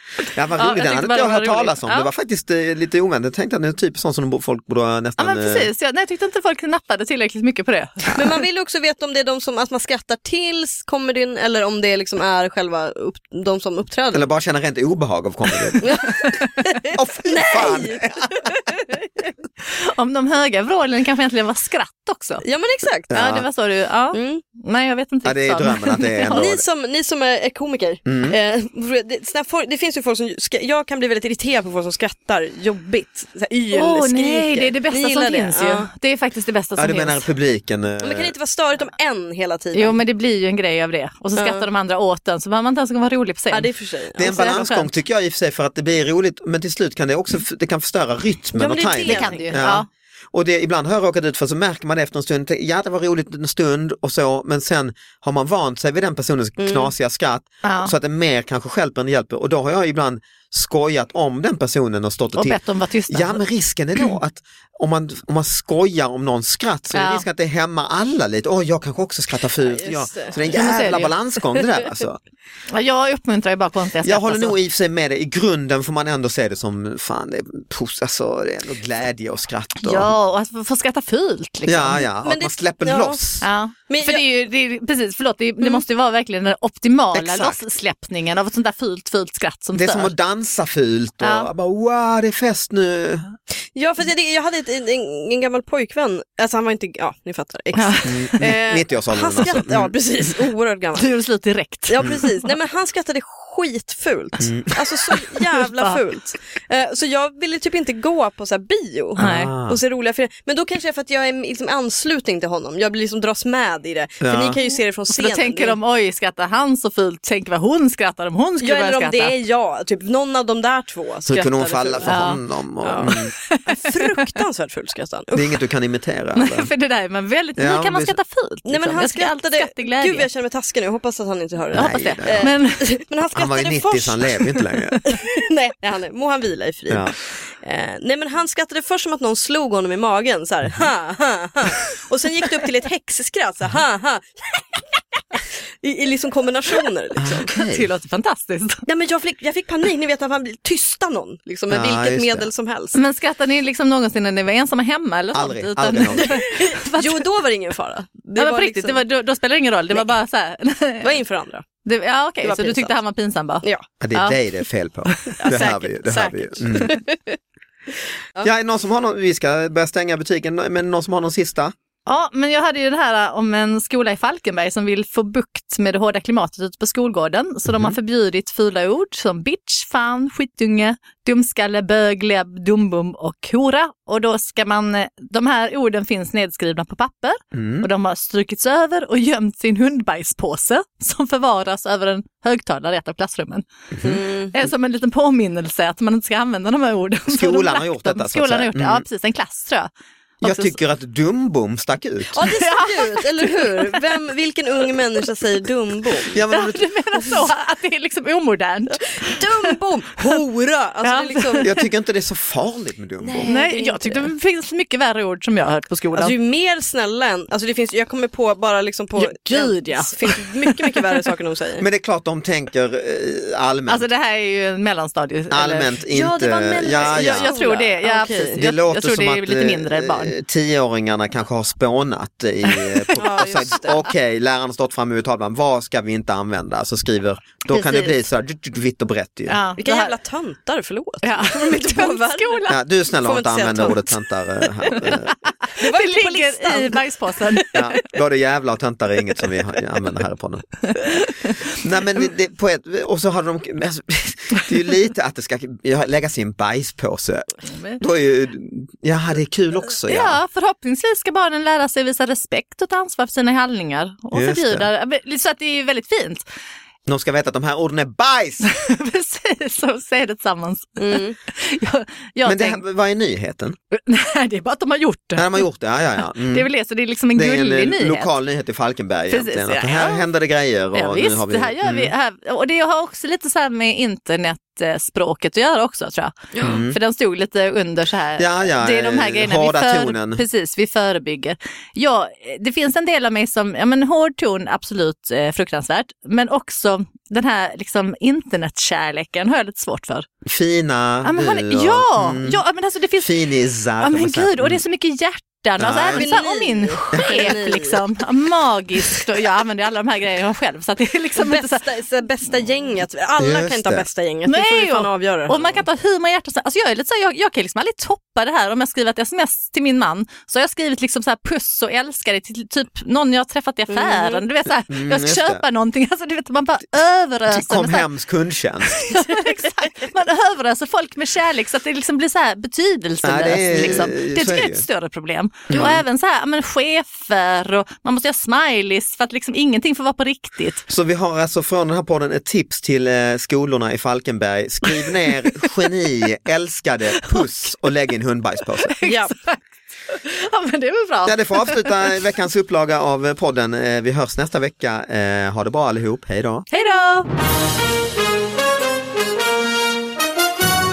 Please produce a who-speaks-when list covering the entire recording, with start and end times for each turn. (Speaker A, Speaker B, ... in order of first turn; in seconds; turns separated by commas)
Speaker A: 0.2-5.7, Speaker B: 0.6-2.1, Speaker B: 5.2-8.2, Speaker A: 8.1-8.3, Speaker C: 8.1-14.2, Speaker A: 14.1-16.1, Speaker C: 15.8-19.0, Speaker B: 16.1-16.6, Speaker A: 16.9-18.6, Speaker B: 19.7-22.4, Speaker C: 22.4-23.1, Speaker A: 23.1-23.4, Speaker B: 23.1-26.4, Speaker C: 24.1-24.4, Speaker A: 25.2-26.6, Speaker C: 26.3-35.9, Speaker A: 28.1-28.4, Speaker B: 33.7-37.3, Speaker A: 36.8-38.3, Speaker C: 38.0-40.0, Speaker B: 39.7-44.9, Speaker C: 41.4-41.6, Speaker C: 43.5-44.4, Speaker A: 44.2-62.6, Speaker C: 48.5-49.6, Speaker B: 49.0-49.9, Speaker C: 56.6-56.9, Speaker B: 57.6-57.9, Speaker B: 62.4-63.4, Speaker A: 63.1-72.2, Speaker B: 66.9-67.2, Speaker C: 69.6-70.4, Speaker B: 70.5-71.1, Speaker B: 72.7-74.6, Speaker A: 74.0-80.1, Speaker B: 79.8-82.0, Speaker A: 81.7-83.5, Speaker C: 82.2-83.2, Speaker B: 83.4-90.1, Speaker C: 83.9-84.2, Speaker A: 87.1-87.6, Speaker A: 89.7-93.3, Speaker B: 91.2-91.5, Speaker C: 93.7-101.1, Speaker B: 97.8-98.3, Speaker A: 98.0-99.9, Speaker B: 101.0-102.5, Speaker C: 101.9-115.8, Speaker A: 104.4-104.7, Speaker B: 105.7-106.0, Speaker B: 109.2-109.5, Speaker A: 109.2-109.8, Speaker A: 114.2-114.6, Speaker B: 115.1-119.4, Speaker C: 118.6-122.3, Speaker A: 121.2-123.3, Speaker B: 122.0-122.4, Speaker C: 122.8-125.5, Speaker B: 123.0-124.2, Speaker A: 125.3-126.7, Speaker B: 126.3-130.3, Speaker A: 127.6-128.2, Speaker C: 128.7-134.5, Speaker A: 131.7-132.5, Speaker B: 131.7-132.8, Speaker A: 133.3-135.0, Speaker B: 134.9-135.2, Speaker C: 135.1-147.5, Speaker A: 136.9-137.1, Speaker A: 147.2-147.9, Speaker B: 147.5-148.8, Speaker C: 148.9-153.0, Speaker A: 151.7-152.5, Speaker B: 152.9-157.3, Speaker A: 155.3-156.3, Speaker C: 156.2-159.0, Speaker B: 158.3-161.2, Speaker C: 161.0-161.7, Speaker B: 161.8-164.4, Speaker C: 162.4-162.9, Speaker A: 164.0-167.0, Speaker B: 165.1-165.4, Speaker C: 165.4-167.3, Speaker A: 168.4-171.7, Speaker B: 172.1-193.6, Speaker A: 177.7-177.9, Speaker A: 187.5-187.9, Speaker A: 193.9-194.2, Speaker C: 194.0-194.5, Speaker B: 194.5-199.9, Speaker A: 197.3-199.0, Speaker A: 200.4-202.3, Speaker B: 200.4-200.8, Speaker C: 202.3-206.3, Speaker B: 202.4-204.1, Speaker B: 204.9-205.3, Speaker A: 206.3-206.9, Speaker B: 206.5-209.7, Speaker C: 209.1-211.7, Speaker B: 211.0-211.8, Speaker A: 211.6-213.4, Speaker C: 213.2-214.3, Speaker B: 213.4-216.3, Speaker C: 216.1-221.8, Speaker B: 219.2-221.3, Speaker A: 221.8-224.0, Speaker B: 223.9-225.9, Speaker A: 225.5-227.5, Speaker C: 226.1-228.6, Speaker B: 227.0-230.3, Speaker A: 228.6-239.6, Speaker B: 232.7-233.8, Speaker C: 233.2-234.0, Speaker B: 237.7-238.2, Speaker B: 239.5-240.1, Speaker C: 239.8-242.6, Speaker B: 241.2-242.8, Speaker A: 242.7-245.3, Speaker C: 243.2-244.2, Speaker B: 244.9-248.0, Speaker C: 245.8-247.7, Speaker A: 247.7-250.8, Speaker B: 250.9-251.6, Speaker A: 251.7-260.4, Speaker B: 260.1-266.4, Speaker A: 264.3-264.9, Speaker A: 267.1-268.6, Speaker B: 268.6-272.8, Speaker C: 271.0-271.4, Speaker A: 272.4-273.8, Speaker B: 273.9-275.6, Speaker A: 275.4-276.7, Speaker B: 276.5-278.3, Speaker A: 277.3-282.1, Speaker B: 279.3-280.2, Speaker B: 280.9-300.3, Speaker A: 286.6-287.0, Speaker A: 288.4-290.4, Speaker A: 300.4-302.6, Speaker B: 301.2-303.3, Speaker A: 303.2-304.8, Speaker B: 304.0-311.9, Speaker A: 305.8-306.4, Speaker C: 306.1-308.0, Speaker A: 307.1-307.5, Speaker C: 311.4-315.6, Speaker A: 313.4-314.1, Speaker B: 314.5-328.1, Speaker C: 323.9-324.4, Speaker A: 324.9-325.6, Speaker A: 327.5-329.3, Speaker B: 329.0-340.8, Speaker A: 333.2-334.9, Speaker A: 335.7-336.0, Speaker A: 340.9-349.0, Speaker B: 348.9-351.9, Speaker C: 349.0-349.3, Speaker A: 351.2-356.7, Speaker B: 356.7-357.3